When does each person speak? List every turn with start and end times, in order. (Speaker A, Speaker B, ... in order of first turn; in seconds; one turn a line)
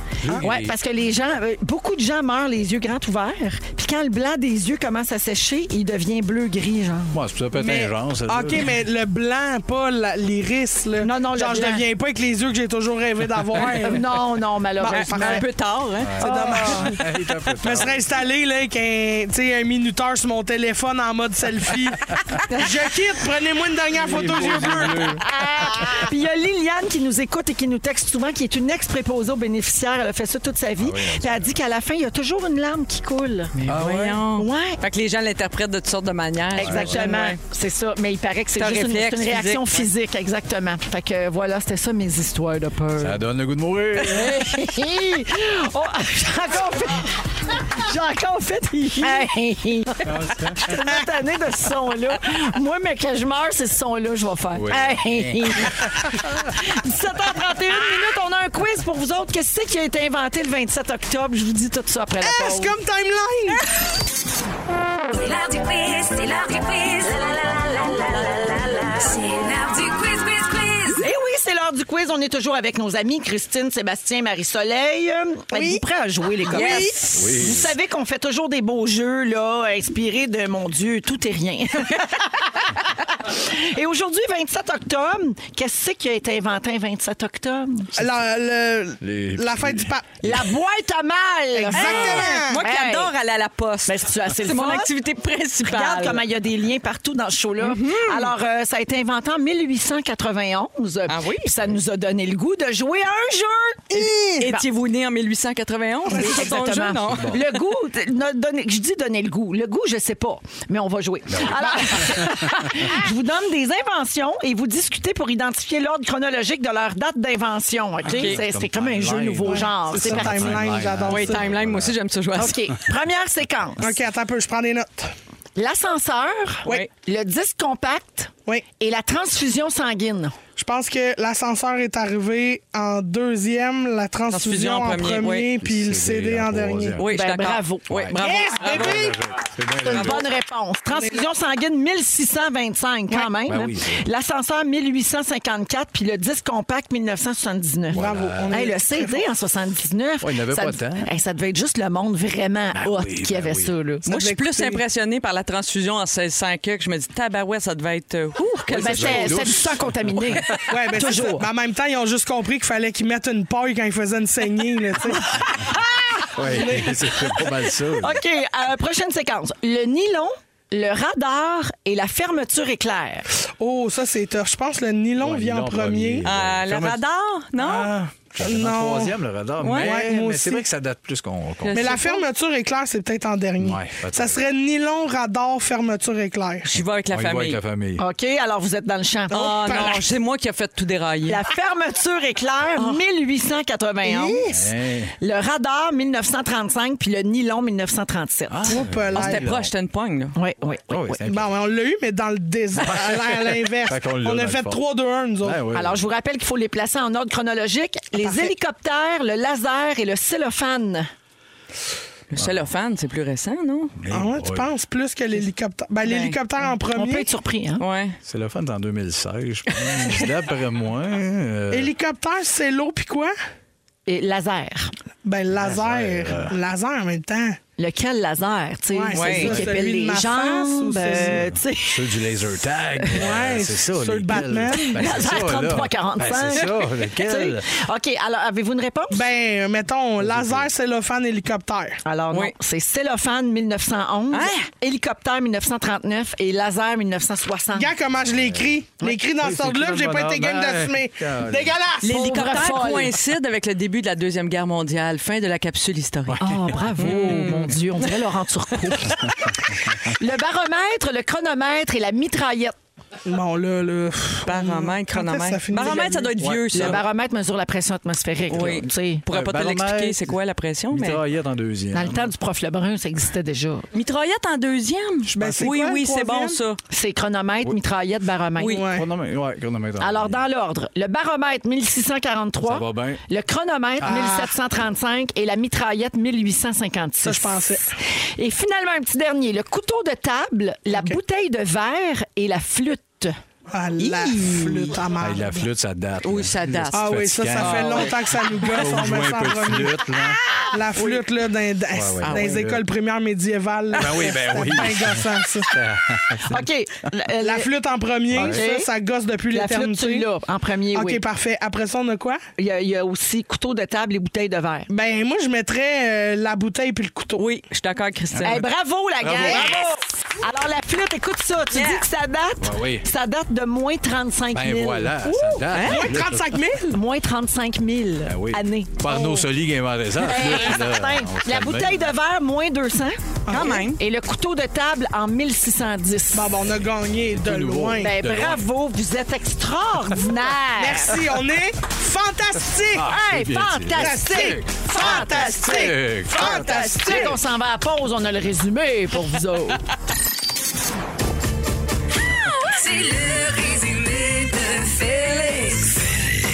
Speaker A: 0.2-0.7
Speaker B: 0.4-7.2
Speaker A: 7.1-8.8
Speaker C: 7.5-14.2
Speaker B: 11.0-11.8
Speaker B: 13.6-15.4
Speaker C: 14.8-15.4
Speaker D: 14.9-16.8
Speaker A: 16.0-18.1
Speaker C: 16.2-25.2
Speaker B: 16.2-17.0
Speaker A: 23.9-26.1
Speaker B: 25.2-33.5
Speaker A: 30.8-31.5
Speaker D: 33.6-37.4
Speaker A: 33.6-34.2
Speaker B: 34.4-34.8
Speaker A: 36.5-37.0
Speaker B: 36.5-43.2
Speaker D: 38.6-39.9
Speaker A: 43.0-44.6
Speaker B: 44.1-62.7
Speaker A: 50.0-50.7
Speaker A: 54.5-56.2
Speaker C: 62.2-63.6
Speaker E: 65.1-71.0
Speaker B: 71.0-87.9
Speaker C: 75.5-75.8
Speaker C: 76.4-77.0
Speaker D: 76.5-77.2
Speaker A: 77.1-77.7
Speaker C: 88.0-90.1
Speaker A: 89.0-90.4
Speaker B: 90.2-93.1
Speaker C: 91.5-92.6
Speaker D: 91.7-96.2
Speaker B: 93.8-94.9
Speaker B: 95.6-104.6
Speaker D: 97.6-98.3
Speaker D: 101.1-101.5
Speaker C: 103.9-104.4
Speaker D: 104.4-107.5
Speaker C: 106.1-106.4
Speaker B: 106.1-120.6
Speaker A: 107.1-107.4
Speaker A: 111.3-112.9
Speaker C: 111.6-112.1
Speaker D: 118.1-118.4
Speaker A: 118.1-122.0
Speaker C: 119.4-121.5
Speaker D: 121.1-122.6
Speaker B: 122.3-123.8
Speaker C: 123.8-125.1
Speaker B: 125.5-130.3
Speaker C: 130.6-137.0
Speaker D: 134.3-135.5
Speaker A: 135.6-137.1
Speaker D: 137.0-139.2
Speaker B: 137.1-137.9
Speaker A: 137.9-140.2
Speaker C: 138.2-139.2
Speaker B: 139.9-154.1
Speaker D: 139.9-140.2
Speaker C: 140.9-141.2
Speaker A: 143.4-144.1
Speaker A: 147.9-148.7
Speaker C: 147.9-149.3
Speaker A: 150.2-151.1
Speaker A: 152.7-153.7
Speaker D: 154.1-159.6
Speaker C: 154.1-154.8
Speaker A: 158.7-160.7
Speaker B: 158.7-161.5
Speaker D: 160.4-161.1
Speaker C: 160.7-165.3
Speaker B: 165.5-166.3
Speaker A: 166.3-168.2
Speaker C: 166.5-167.4
Speaker B: 167.9-173.2
Speaker C: 173.6-176.3
Speaker A: 175.2-177.0
Speaker D: 176.2-177.9
Speaker C: 177.6-179.2
Speaker A: 178.3-181.9
Speaker D: 179.6-180.0
Speaker C: 179.8-180.7
Speaker D: 181.6-182.2
Speaker C: 181.7-186.7
Speaker A: 183.6-184.4
Speaker D: 186.6-187.6
Speaker A: 187.1-188.0
Speaker B: 188.0-190.0
Speaker D: 189.3-191.4
Speaker B: 191.3-194.4
Speaker C: 194.0-194.7
Speaker A: 194.5-195.1
Speaker B: 195.2-198.8
Speaker A: 198.5-199.7
Speaker C: 198.7-199.4
Speaker D: 199.1-200.3
Speaker B: 200.3-201.2
Speaker A: 200.9-201.5
Speaker C: 201.2-205.6
Speaker A: 202.8-204.8
Speaker A: 205.4-206.1
Speaker B: 205.7-211.1
Speaker C: 208.2-208.5
Speaker D: 212.3-213.9
Speaker A: 212.3-212.7
Speaker A: 214.0-214.7
Speaker C: 214.1-217.3
Speaker D: 216.0-216.4
Speaker B: 216.6-217.8
Speaker D: 217.8-218.2
Speaker A: 218.2-221.9
Speaker C: 221.7-223.3
Speaker B: 224.1-224.9
Speaker C: 225.2-227.6
Speaker A: 225.5-226.6
Speaker B: 227.8-232.1
Speaker C: 228.9-231.5
Speaker D: 229.1-229.7
Speaker A: 229.4-229.8
Speaker A: 231.2-237.7
Speaker C: 233.1-235.1
Speaker B: 234.8-239.2
Speaker C: 239.1-242.0
Speaker A: 240.2-240.7
Speaker B: 242.0-247.9
Speaker D: 244.3-244.7
Speaker C: 247.7-252.5
Speaker A: 248.2-248.8
Speaker A: 249.3-251.8
Speaker D: 252.0-256.4
Speaker B: 252.0-253.1
Speaker A: 256.3-257.2
Speaker B: 256.4-262.7
Speaker D: 257.0-258.1
Speaker C: 263.2-266.2
Speaker D: 264.4-267.0
Speaker B: 265.9-266.2
Speaker A: 266.4-267.0
Speaker B: 266.7-269.2
Speaker D: 268.5-271.2
Speaker A: 269.3-270.4
Speaker A: 270.9-272.3
Speaker B: 271.9-273.9
Speaker D: 273.9-276.8
Speaker C: 275.3-276.6
Speaker A: 275.3-275.7
Speaker B: 276.9-278.9
Speaker D: 278.6-278.8
Speaker C: 278.6-279.1
Speaker A: 278.8-280.4
Speaker B: 280.0-293.4
Speaker A: 282.6-283.2
Speaker A: 284.0-284.3
Speaker C: 284.0-284.5
Speaker C: 287.2-287.9
Speaker C: 293.7-295.7
Speaker B: 294.0-294.9
Speaker A: 295.2-298.1
Speaker D: 296.2-298.9
Speaker C: 296.9-300.0
Speaker A: 298.7-300.4
Speaker B: 300.5-301.2
Speaker C: 300.7-305.8
Speaker A: 301.9-302.9
Speaker D: 302.2-302.6
Speaker A: 303.9-306.7
Speaker B: 306.5-307.7
Speaker C: 307.4-310.3
Speaker A: 308.3-308.6
Speaker B: 308.3-308.9
Speaker B: 309.5-311.2
Speaker C: 310.9-312.4
Speaker B: 312.6-314.9
Speaker C: 314.9-317.4
Speaker D: 317.4-318.6
Speaker B: 318.4-319.7
Speaker A: 319.2-319.7
Speaker D: 319.5-319.8
Speaker C: 319.5-319.8
Speaker B: 320.4-325.6
Speaker D: 321.7-322.0
Speaker A: 322.6-323.1
Speaker A: 324.5-326.7
Speaker D: 325.7-326.1
Speaker C: 325.7-327.0
Speaker B: 326.9-329.1
Speaker A: 328.2-332.1
Speaker C: 329.1-329.5
Speaker B: 330.2-336.5
Speaker C: 333.5-333.8
Speaker D: 333.5-334.0
Speaker C: 336.3-338.1
Speaker A: 337.3-338.6
Speaker B: 338.0-341.2
Speaker C: 340.7-343.1
Speaker A: 342.9-346.8
Speaker B: 343.0-349.8
Speaker C: 343.9-347.4
Speaker D: 352.6-353.4
Speaker E: 352.7-355.8
Speaker D: 355.5-355.9